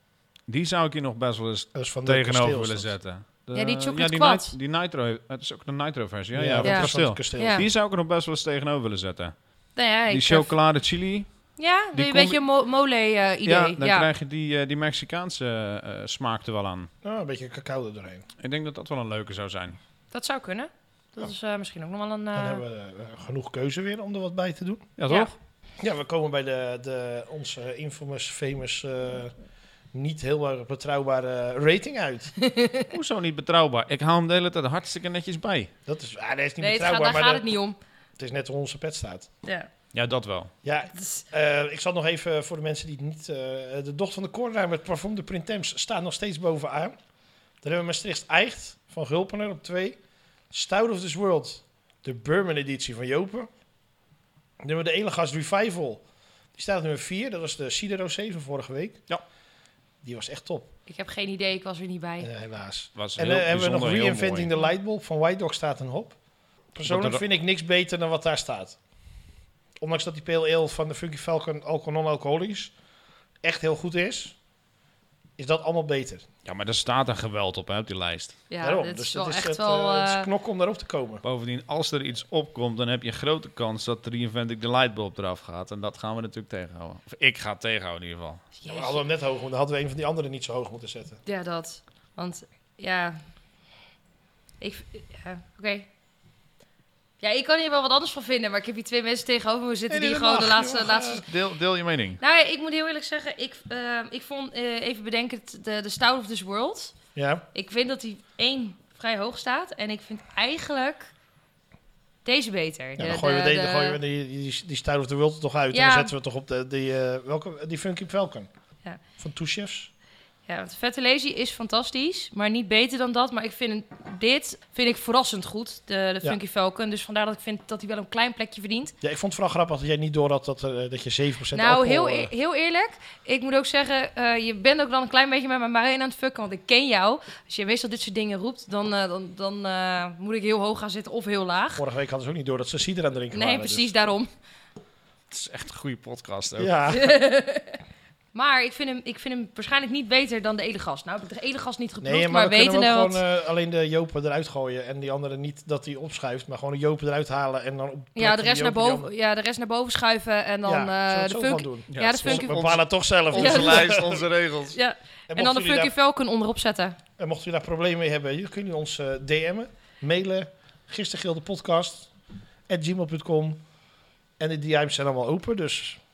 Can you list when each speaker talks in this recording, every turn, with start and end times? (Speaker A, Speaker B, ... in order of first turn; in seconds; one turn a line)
Speaker A: 0.5-9.3
Speaker B: 1.7-2.9
Speaker C: 3.5-4.5
Speaker B: 6.3-7.6
Speaker C: 6.6-7.7
Speaker C: 9.8-10.5
Speaker A: 10.1-12.4
Speaker C: 11.6-14.1
Speaker A: 13.4-16.9
Speaker B: 17.0-18.3
Speaker A: 18.4-19.8
Speaker C: 20.1-22.6
Speaker B: 22.3-24.9
Speaker A: 25.0-25.3
Speaker B: 25.8-29.3
Speaker B: 29.9-32.3
Speaker C: 32.4-32.9
Speaker A: 32.9-35.7
Speaker B: 35.9-37.5
Speaker C: 36.6-37.8
Speaker B: 38.2-39.3
Speaker A: 39.9-40.5
Speaker B: 40.6-46.9
Speaker C: 40.9-41.2
Speaker B: 47.6-50.0
Speaker B: 50.5-53.5
Speaker B: 54.6-56.0
Speaker B: 56.5-59.0
Speaker B: 60.0-60.7
Speaker C: 60.9-62.3
Speaker B: 62.2-66.2
Speaker A: 63.0-64.5
Speaker B: 66.7-68.8
Speaker A: 66.8-67.2
Speaker B: 69.8-72.7
Speaker B: 73.4-74.4
Speaker B: 75.4-76.2
Speaker A: 76.4-78.4
Speaker C: 78.5-80.3
Speaker B: 78.6-81.2
Speaker A: 81.2-88.4
Speaker C: 88.6-89.0
Speaker B: 88.7-91.2
Speaker C: 91.2-93.2
Speaker C: 94.6-95.9
Speaker C: 97.2-101.2
Speaker B: 99.9-101.2
Speaker A: 101.2-102.2
Speaker C: 102.2-107.0
Speaker B: 107.1-107.4
Speaker C: 107.5-111.1
Speaker C: 112.2-114.0
Speaker B: 113.0-118.5
Speaker C: 115.7-116.1
Speaker B: 119.2-119.9
Speaker C: 120.5-128.9
Speaker B: 129.0-132.3
Speaker C: 131.5-141.8
Speaker B: 141.7-143.9
Speaker C: 143.3-144.3
Speaker A: 145.3-146.7
Speaker B: 146.6-147.1
Speaker C: 146.9-147.8
Speaker C: 148.3-153.2
Speaker B: 152.0-159.1
Speaker C: 158.2-162.7
Speaker B: 160.6-164.3
Speaker A: 161.9-164.8
Speaker C: 163.3-164.0
Speaker C: 164.7-167.0
Speaker B: 165.3-165.9
Speaker B: 167.2-172.1
Speaker B: 172.7-173.6
Speaker B: 174.4-176.0